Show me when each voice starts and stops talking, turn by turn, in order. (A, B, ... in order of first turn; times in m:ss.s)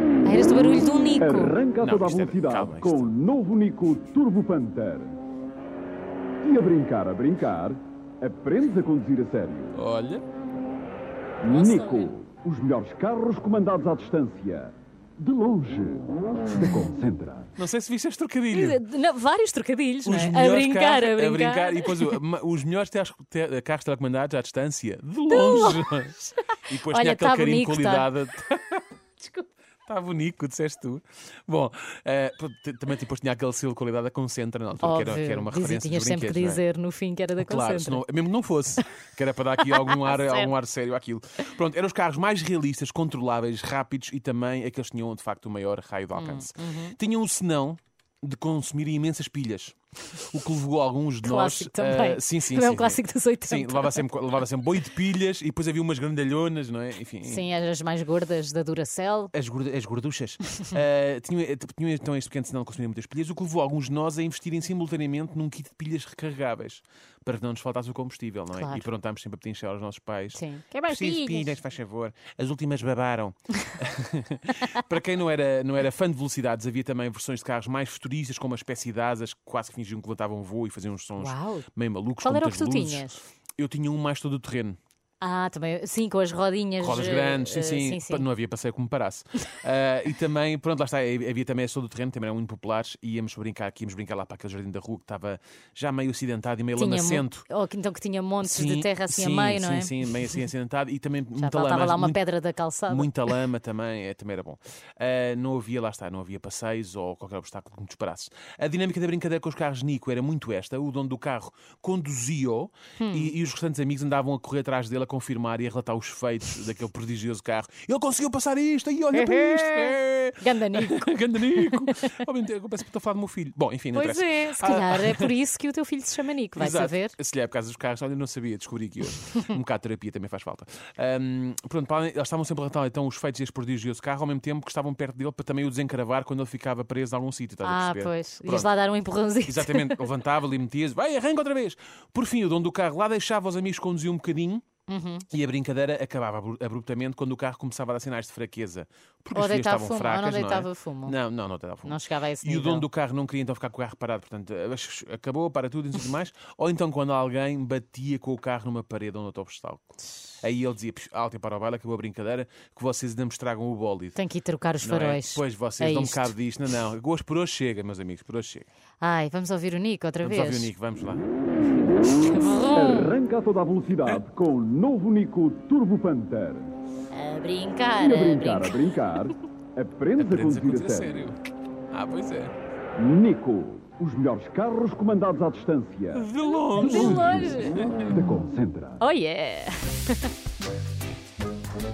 0:00.2-0:01.5 A
0:01.2-0:05.2 B
0:01.7-0:03.1 C
0:06.4-0:09.7 B
0:09.7-0:10.2 C
0:11.4-0:17.5 B
0:11.5-0:12.1 A
0:17.6-0:18.8 C
0:18.5-0:22.2 A
0:20.0-0:28.9 C
0:25.3-0:28.1 A
0:29.9-0:36.6 C
0:34.8-0:38.0 A
0:37.4-0:57.4 C
0:39.6-0:40.5 A
0:46.1-0:47.0 A
0:51.2-0:54.1 A
0:57.2-0:59.3 A
0:59.3-1:24.8 C
1:08.5-1:08.9 A
1:10.3-1:11.6 A
1:14.5-1:14.8 A
1:21.2-1:21.6 A
1:22.2-1:23.2 A
1:25.2-1:28.3 A
1:26.8-1:37.4 C
1:36.7-1:40.0 A
1:38.4-1:42.2 C
1:41.4-1:43.4 A
1:42.9-2:05.3 C
1:53.0-1:53.3 A
1:59.1-2:02.3 A
2:03.9-2:07.1 A
2:06.6-2:18.7 C
2:09.1-2:09.5 A
2:17.6-2:20.0 A
2:19.4-2:24.7 C
2:24.9-2:25.3 A
2:25.3-2:44.2 C
2:29.3-2:31.2 A
2:31.8-2:32.9 A
2:44.1-2:46.3 A
2:44.8-2:48.6 C
2:49.0-2:50.7 A
2:50.2-2:51.3 C
2:51.7-2:53.2 A
2:52.7-2:56.7 B
2:57.1-2:59.2 A
2:58.0-3:01.3 B
3:00.2-3:01.4 C
3:01.9-3:02.5 C
3:03.0-3:06.3 B
3:06.1-3:08.2 C
3:06.7-3:08.1 A
3:07.3-3:09.0 B
3:09.0-3:10.3 A